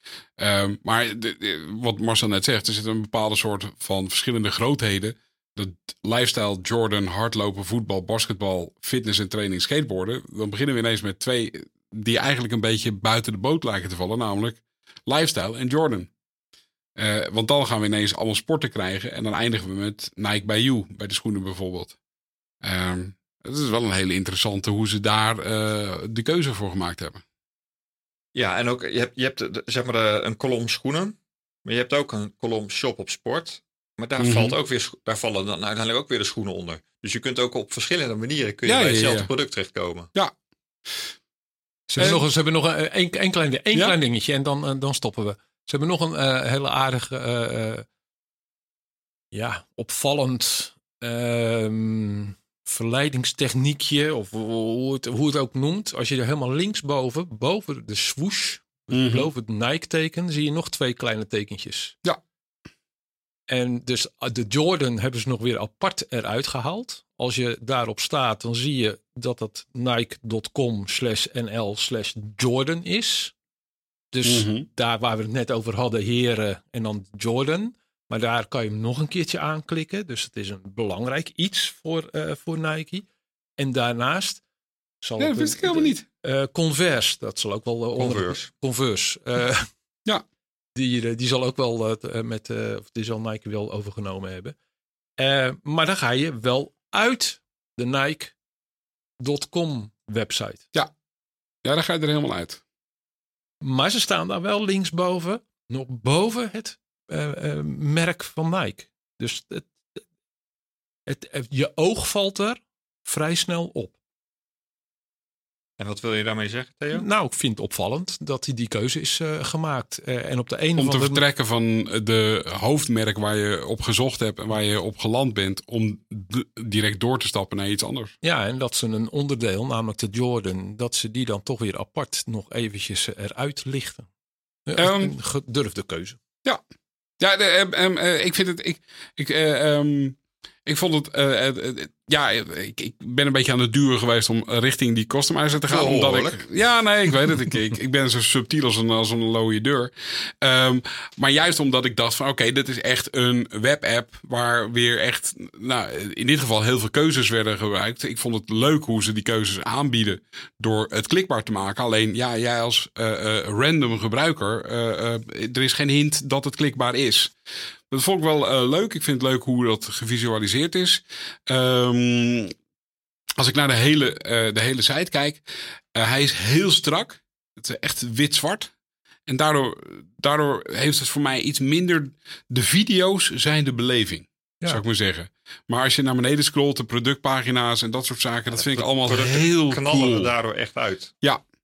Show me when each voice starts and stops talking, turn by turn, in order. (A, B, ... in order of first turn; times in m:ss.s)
0:00.4-0:16.1 A
0:17.0-0:22.0 A
0:22.6-0:27.2 A
0:28.3-0:40.1 B
0:34.2-0:34.6 A
0:38.6-0:39.3 A
0:41.9-0:47.9 C
0:49.3-1:02.0 C
0:58.9-0:59.3 A
1:03.5-1:13.3 C
1:14.1-1:23.0 C
1:14.2-1:14.7 A
1:23.6-1:24.4 C
1:25.0-1:29.7 C
1:25.2-1:26.0 A
1:28.0-1:28.5 B
1:30.7-1:34.6 C
1:35.2-1:38.4 C
1:39.2-1:40.7 C
1:41.6-1:42.6 A
1:43.6-1:50.0 C
1:51.1-1:54.0 C
1:55.8-1:57.0 B
1:56.9-2:01.2 C
2:00.8-2:08.1 A
2:08.2-2:14.1 C
2:14.6-2:16.2 C
2:14.8-2:15.1 A
2:17.2-2:47.3 A
2:25.7-2:26.4 B
2:47.9-2:52.5 A
2:53.4-2:58.7 A
2:59.3-3:10.3 A
3:08.5-3:11.1 B